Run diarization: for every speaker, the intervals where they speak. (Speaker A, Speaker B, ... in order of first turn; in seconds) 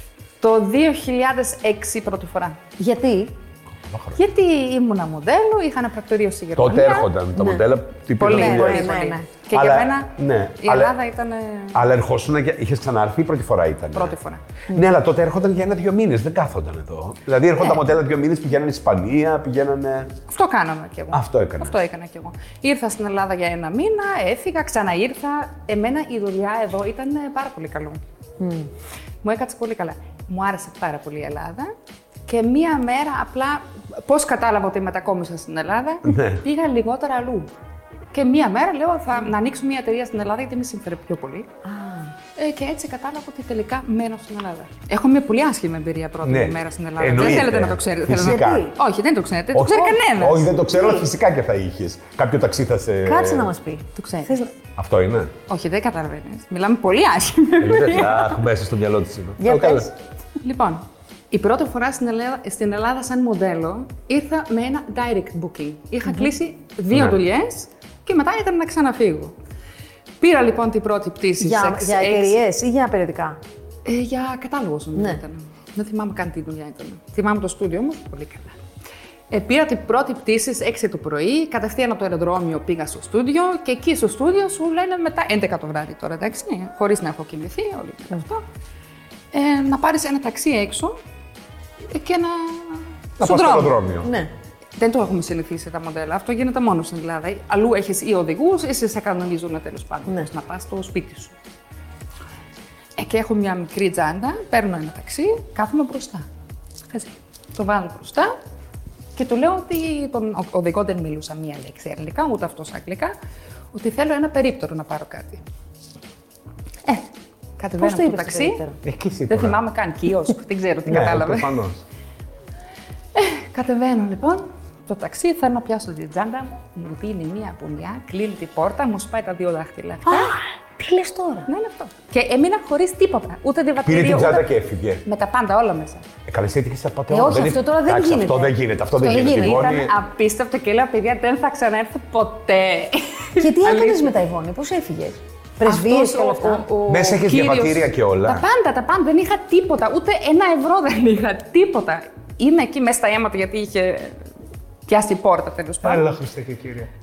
Speaker A: 0.4-2.6, 4.2-7.1, 8.2-11.9, 13.9-14.4, 20.3-28.0, 29.2-31.7, 32.3-37.5, 38.1-41.5, 42.4-50.5, 54.0-54.4, 55.5-58.4, 60.4-69.3, 70.2-72.4, 73.8-78.6, 79.3-88.4, 89.3-91.0, 91.9-93.8, 94.8-101.3, 103.0-106.3, 106.9-108.3, 109.2-113.1, 113.7-115.4, 117.6-118.6, 119.3-121.5, 123.2-130.4, 131.5-134.5, 135.1-136.1, 139.3-144.2, 145.6-154.2, 154.9-156.1
Speaker B: 2.8-3.3, 7.3-7.7, 8.2-9.3, 28.4-28.7, 41.6-42.1, 48.1-48.7, 50.7-51.1, 53.0-54.5, 59.4-59.9, 71.4-73.4, 75.0-75.2, 94.0-94.3, 117.8-118.8, 130.1-131.5, 137.1-139.7, 143.4-146.7
Speaker C: 3.9-4.2, 6.6-9.0, 9.5-10.9, 11.7-14.2, 14.7-20.1, 21.1-21.8, 36.1-36.4, 46.2-48.7, 49.5-53.5, 54.8-55.3, 57.6-59.9, 93.2-94.1, 118.8-119.6, 120.9-121.8, 133.8-135.0, 136.3-139.9, 146.9-148.4, 155.8-156.9